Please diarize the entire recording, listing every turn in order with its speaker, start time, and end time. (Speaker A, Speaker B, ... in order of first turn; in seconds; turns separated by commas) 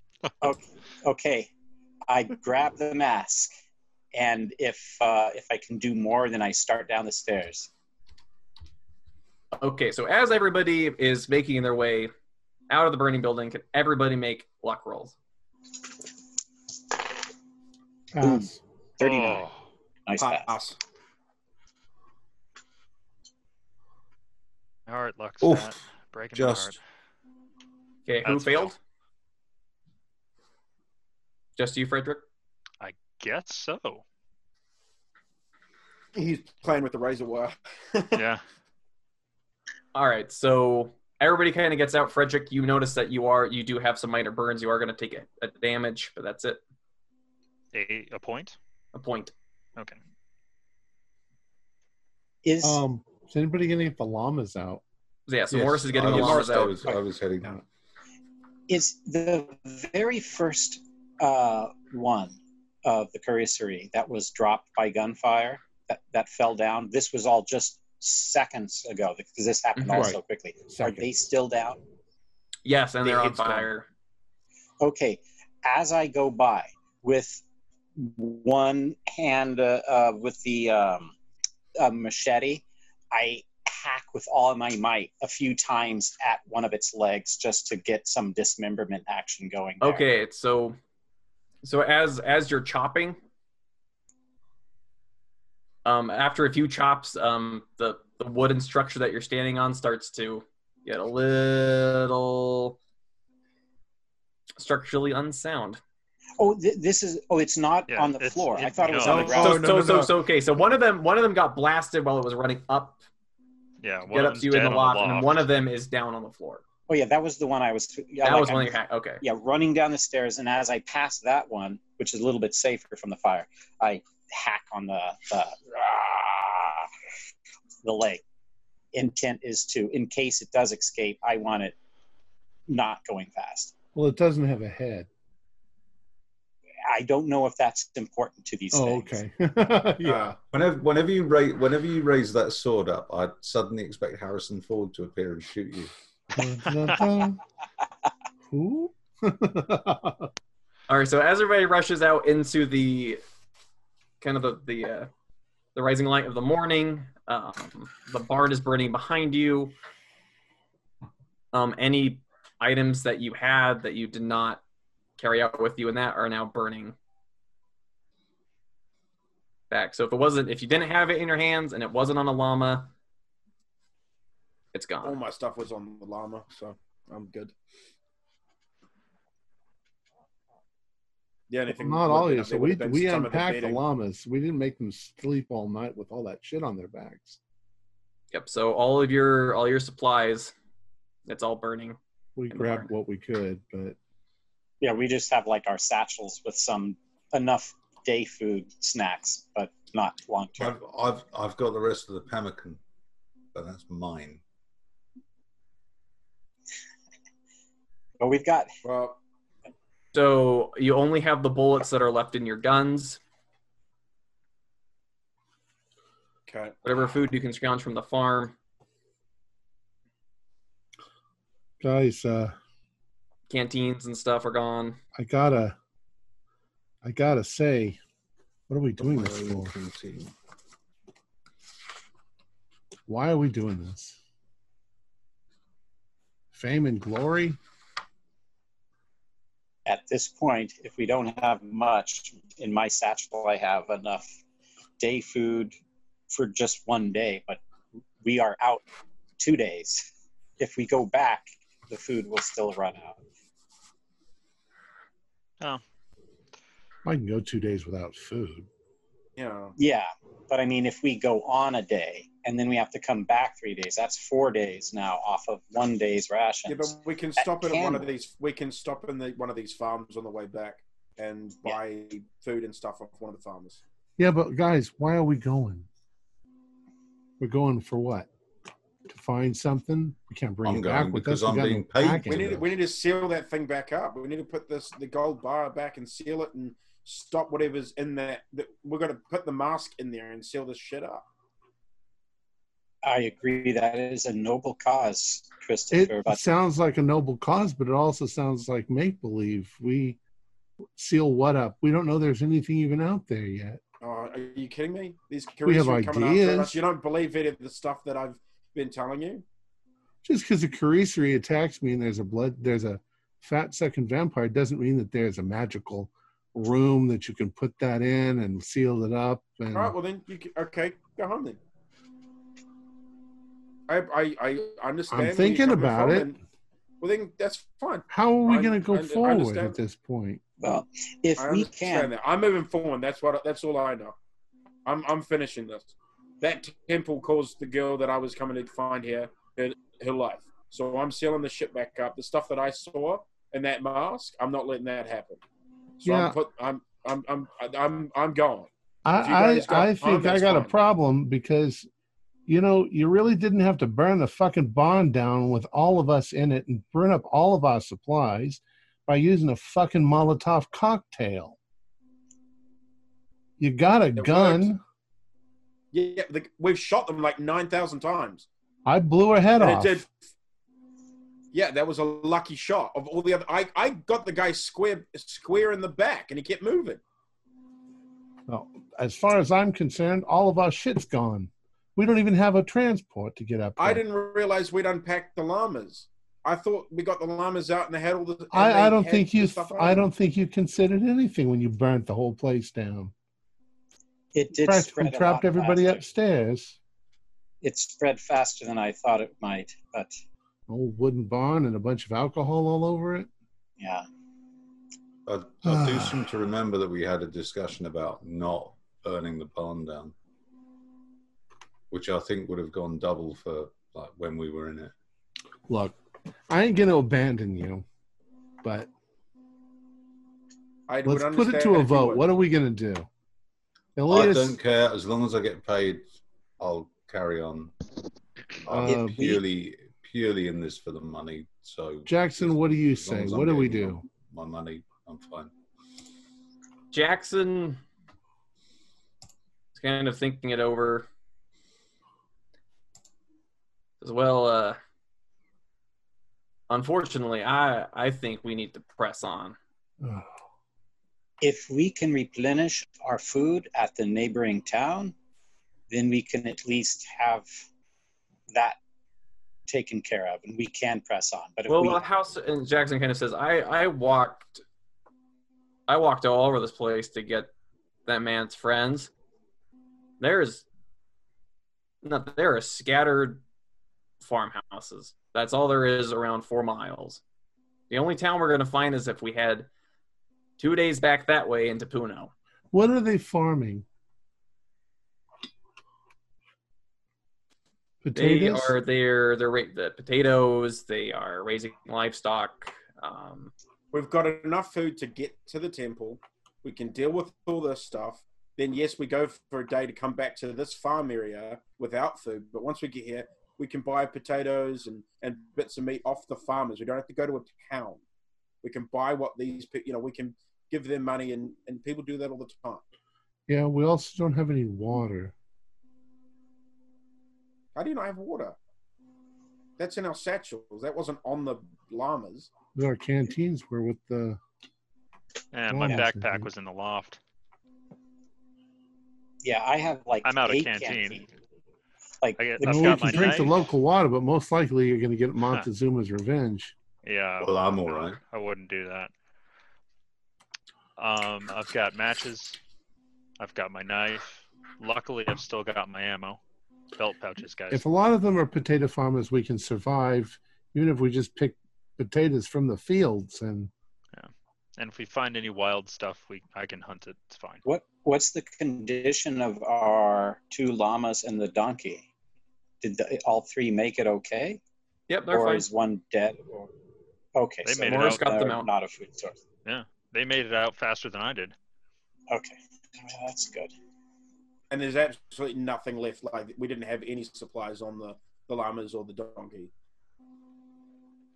Speaker A: 0.4-1.5, Speaker A: 2.1-3.5, Speaker A: 4.1-7.7, Speaker B: 9.5-12.1, Speaker B: 12.7-15.2, Speaker C: 18.1-18.6, Speaker A: 18.2-19.5, Speaker D: 19.0-19.6, Speaker A: 20.1-20.6, Speaker E: 20.2-20.8, Speaker D: 24.9-26.8, Speaker F: 25.4-25.8, Speaker F: 26.4-26.8, Speaker B: 28.1-28.8, Speaker D: 28.2-28.8, Speaker B: 31.6-32.2, Speaker D: 32.8-34.0, Speaker E: 36.1-38.2, Speaker D: 38.1-38.4, Speaker B: 39.9-46.6, Speaker D: 47.7-48.6, Speaker B: 48.9-49.3, Speaker A: 52.4-52.8, Speaker C: 52.6-54.8, Speaker B: 55.3-56.8, Speaker C: 55.5-56.0, Speaker F: 55.9-57.6, Speaker E: 56.1-57.0, Speaker A: 58.7-71.8, Speaker B: 69.8-70.1, Speaker C: 69.9-71.1, Speaker B: 72.7-73.9, Speaker E: 73.0-73.7, Speaker A: 74.8-77.4, Speaker A: 78.0-81.2, Speaker A: 81.8-90.0, Speaker B: 89.8-90.8, Speaker B: 91.6-93.2, Speaker B: 95.8-102.8, Speaker B: 104.6-105.8, Speaker A: 106.4-109.6, Speaker D: 107.9-109.5, Speaker E: 109.1-110.1, Speaker B: 109.2-113.0, Speaker D: 113.8-115.5, Speaker B: 114.1-116.6, Speaker A: 116.9-126.9, Speaker B: 118.2-119.2, Speaker A: 127.8-128.2, Speaker A: 128.9-131.8, Speaker A: 132.7-133.7, Speaker C: 133.9-135.1, Speaker A: 136.8-139.2, Speaker C: 138.7-140.3, Speaker E: 140.0-140.4, Speaker F: 140.5-145.9, Speaker C: 146.3-147.4, Speaker C: 148.5-150.3, Speaker B: 150.9-153.2, Speaker B: 154.2-155.1, Speaker B: 155.8-159.8, Speaker B: 161.5-164.6, Speaker B: 165.2-166.9, Speaker B: 169.7-172.9, Speaker B: 174.7-175.2, Speaker E: 175.0-177.5, Speaker E: 181.5-183.8, Speaker C: 181.7-187.4, Speaker B: 188.3-190.5, Speaker B: 191.3-192.0, Speaker C: 192.4-194.0, Speaker B: 192.5-192.9, Speaker A: 194.8-200.8, Speaker F: 200.6-202.8, Speaker F: 203.5-204.4, Speaker A: 208.2-208.7, Speaker E: 208.8-209.2, Speaker B: 210.1-213.2, Speaker E: 216.5-216.8, Speaker B: 216.8-218.5, Speaker C: 221.8-222.5, Speaker B: 223.5-225.0, Speaker C: 225.2-225.8, Speaker C: 227.0-228.0, Speaker C: 228.7-229.7, Speaker F: 229.0-230.3, Speaker C: 233.1-234.2, Speaker C: 236.5-237.6, Speaker A: 239.9-244.3, Speaker A: 245.0-245.8, Speaker A: 246.3-247.6, Speaker A: 248.2-248.8, Speaker A: 249.4-250.1, Speaker A: 250.6-253.2, Speaker C: 257.0-258.7, Speaker E: 259.4-259.8, Speaker A: 259.8-268.1, Speaker E: 266.7-273.8, Speaker C: 274.2-275.9, Speaker C: 277.4-278.3, Speaker C: 279.1-282.5, Speaker F: 280.6-282.7, Speaker E: 282.3-291.2, Speaker A: 293.0-296.5, Speaker C: 295.9-300.2, Speaker C: 301.0-303.8, Speaker E: 304.0-309.4, Speaker C: 305.6-306.8, Speaker C: 310.2-319.9, Speaker E: 319.7-321.6, Speaker E: 323.9-326.4, Speaker C: 325.1-326.4, Speaker E: 327.0-329.8, Speaker C: 328.1-330.4, Speaker A: 330.6-332.1, Speaker E: 331.4-334.2, Speaker E: 334.9-345.4, Speaker E: 346.0-350.7, Speaker C: 346.0-346.4, Speaker C: 349.1-351.9, Speaker C: 352.5-361.6, Speaker C: 363.6-364.8, Speaker E: 364.2-364.7, Speaker E: 365.9-368.5, Speaker C: 368.9-370.0, Speaker E: 369.6-370.1, Speaker E: 371.5-377.0, Speaker C: 378.5-384.0, Speaker E: 383.8-390.1, Speaker C: 388.5-393.1, Speaker A: 394.3-396.1, Speaker C: 394.6-396.8, Speaker A: 397.6-400.2, Speaker C: 400.7-403.3, Speaker A: 403.8-404.1, Speaker F: 405.3-410.1, Speaker C: 405.6-406.2, Speaker F: 411.9-414.9, Speaker C: 415.7-416.0, Speaker C: 416.5-417.9, Speaker C: 418.6-418.9, Speaker E: 420.9-422.3, Speaker C: 421.1-423.1, Speaker C: 424.0-424.6, Speaker F: 424.1-426.1, Speaker F: 426.6-427.7, Speaker F: 428.6-435.5, Speaker C: 428.7-429.3, Speaker A: 428.9-429.4, Speaker C: 432.1-434.1, Speaker B: 436.9-437.8, Speaker B: 439.8-441.1, Speaker B: 444.0-444.8, Speaker B: 446.7-449.6, Speaker C: 450.0-450.3, Speaker A: 451.4-455.1, Speaker A: 455.9-457.5, Speaker A: 458.5-458.8, Speaker A: 459.7-462.0, Speaker B: 461.7-464.6, Speaker B: 465.9-467.5, Speaker B: 468.1-469.1, Speaker B: 470.2-470.7, Speaker B: 472.0-473.4, Speaker B: 474.2-477.2, Speaker B: 477.9-479.7, Speaker B: 480.6-482.3, Speaker C: 482.7-483.9, Speaker C: 488.0-488.8, Speaker B: 488.1-493.5, Speaker E: 493.9-508.0, Speaker E: 508.6-512.8, Speaker C: 513.5-515.3, Speaker E: 517.8-518.6, Speaker E: 519.8-522.5, Speaker C: 522.8-524.4, Speaker D: 525.5-527.2, Speaker C: 525.7-526.5, Speaker A: 529.4-531.3, Speaker D: 530.2-531.3, Speaker A: 532.2-533.6, Speaker D: 532.4-533.6, Speaker C: 532.6-536.8, Speaker D: 537.0-539.1, Speaker F: 537.4-538.2, Speaker D: 541.0-542.6, Speaker D: 543.4-546.4, Speaker D: 547.0-547.9, Speaker C: 547.7-553.7, Speaker D: 554.1-557.6, Speaker A: 557.6-562.1, Speaker A: 562.8-564.6, Speaker B: 565.1-565.7, Speaker A: 565.3-566.7, Speaker A: 567.4-569.4, Speaker D: 567.6-568.3, Speaker B: 567.9-568.7, Speaker D: 569.6-571.5, Speaker A: 572.3-573.7, Speaker E: 574.7-579.7